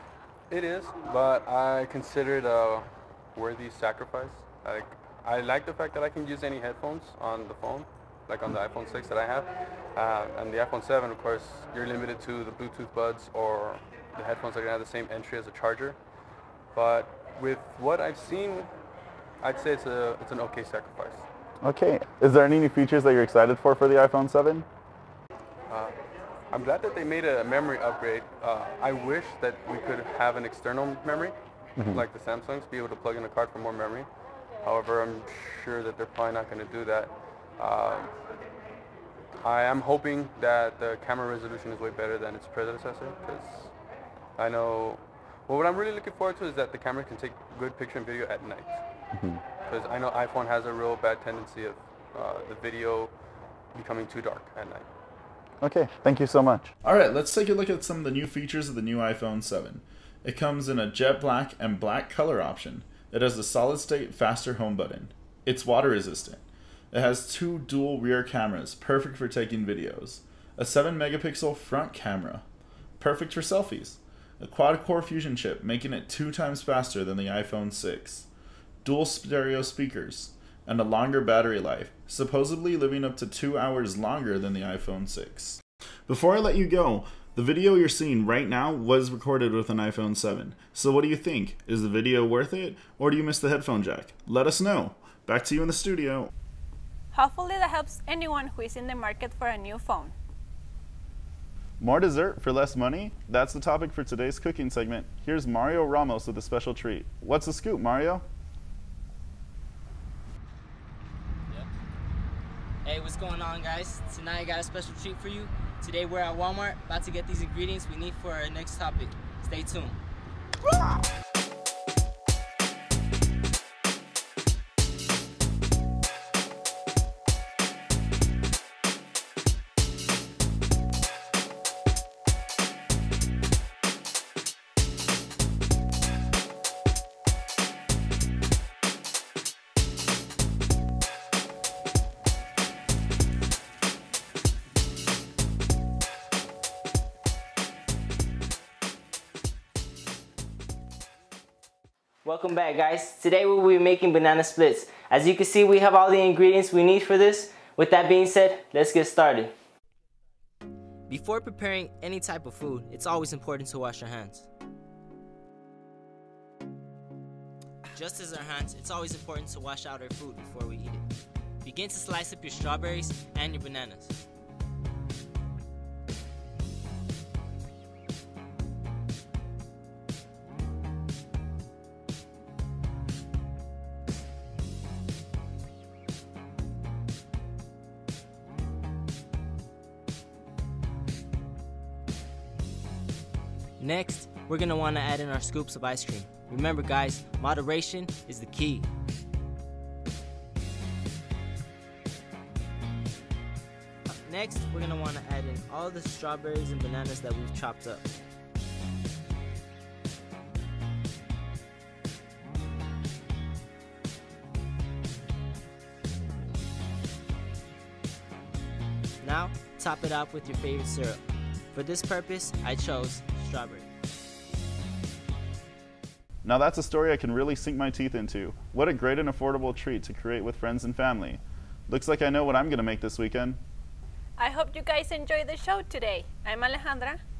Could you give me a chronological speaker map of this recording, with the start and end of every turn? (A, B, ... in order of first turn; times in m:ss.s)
0:00.5-0:16.0 A
0:16.7-0:18.7 A
0:19.4-0:21.3 A
0:21.6-0:24.7 B
0:25.7-0:26.0 A
0:26.5-0:31.3 A
0:31.8-0:32.0 B
0:31.9-0:34.1 A
0:34.6-0:38.1 A
0:39.4-0:43.7 A
0:44.4-0:48.8 A
0:49.2-0:49.4 B
0:49.7-0:53.1 A
0:53.8-0:54.9 A
0:55.6-1:12.4 B
1:13.0-1:18.3 B
1:18.8-1:36.3 B
1:37.1-1:40.1 C
1:41.8-1:48.2 B
1:52.8-2:00.0 D
2:32.2-2:39.5 D
2:41.1-2:44.5 D
2:47.9-2:51.0 D
2:51.6-2:54.2 D
3:13.8-3:18.9 D
3:24.2-3:28.0 D
3:39.2-3:41.2 D
3:41.7-3:43.9 D
3:46.4-3:53.6 B
3:54.4-3:57.2 C